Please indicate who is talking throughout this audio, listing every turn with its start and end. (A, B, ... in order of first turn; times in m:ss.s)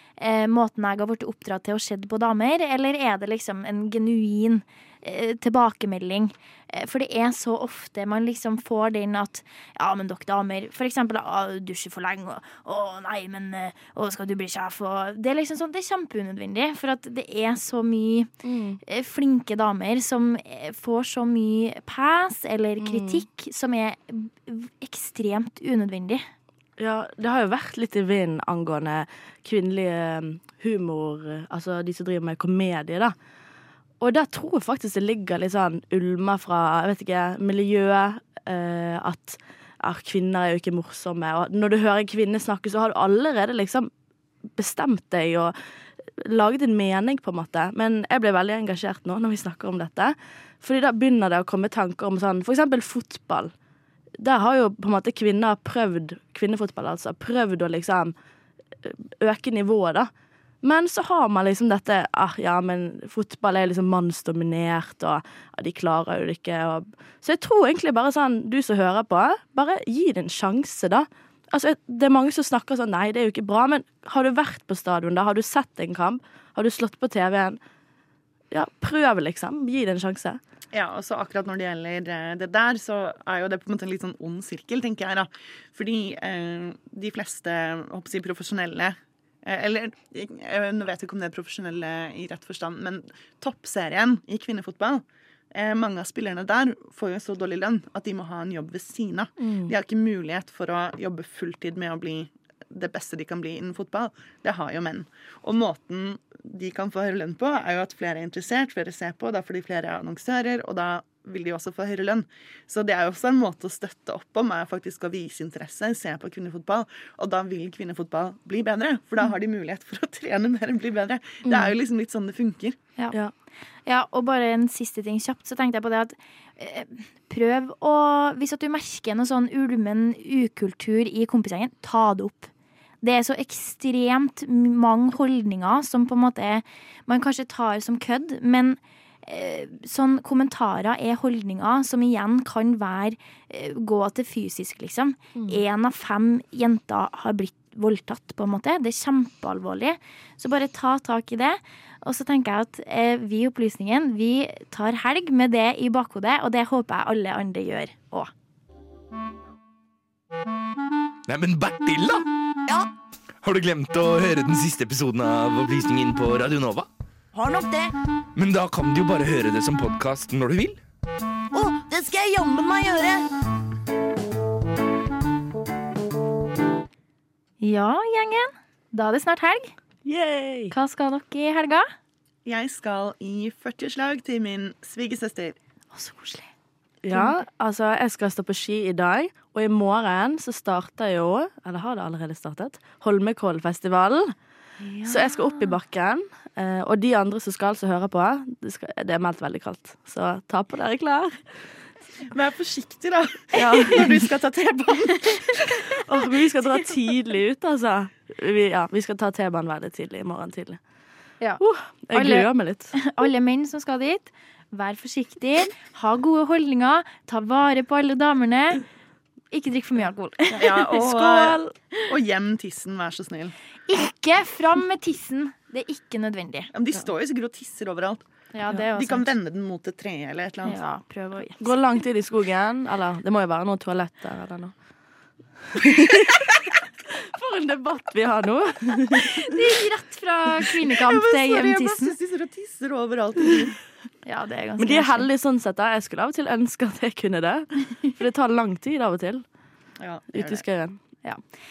0:00.2-0:18.3 A
0:18.4-0:18.8 B
0:18.8-0:26.2 A
0:22.8-0:23.2 B
0:26.8-0:33.1 B
0:34.0-0:43.9 B
0:44.5-0:45.5 B
0:46.2-0:53.5 B
0:54.2-0:58.1 B
0:58.8-1:00.1 B
1:00.6-1:17.6 B
1:18.5-1:20.4 B
1:20.7-2:02.8 C
1:39.4-1:39.7 B
2:01.4-2:01.8 B
2:03.8-2:12.5 A
2:13.0-2:38.3 A
2:25.4-2:25.6 B
2:41.3-2:42.2 D
2:43.4-2:46.9 D
2:47.3-2:47.9 E
2:48.4-2:50.8 D
2:51.5-2:53.2 E
2:57.6-2:59.7 A
3:00.0-3:00.7 B
3:00.7-3:01.8 A
3:02.4-3:05.6 C
3:05.9-3:06.5 A
3:07.0-3:14.3 B
3:07.1-3:07.4 A
3:14.8-3:15.8 A
3:15.0-3:21.5 B
3:22.3-3:25.7 C
3:23.6-3:24.2 B
3:26.0-3:30.8 B
3:31.6-3:32.9 B
3:32.1-3:38.8 A
3:39.5-3:41.6 A
3:40.6-3:43.5 C
3:43.9-3:46.7 A
3:46.7-3:48.2 C
3:48.5-3:49.2 A
3:48.8-3:50.8 C
3:50.6-3:51.7 A
3:51.6-3:54.7 B
3:55.7-3:56.6 B
3:57.3-3:59.5 B
3:59.2-4:02.1 A
4:00.9-4:03.8 C
4:04.2-4:05.3 A
4:04.8-4:09.4 B
4:10.0-4:10.6 C
4:10.3-4:11.0 B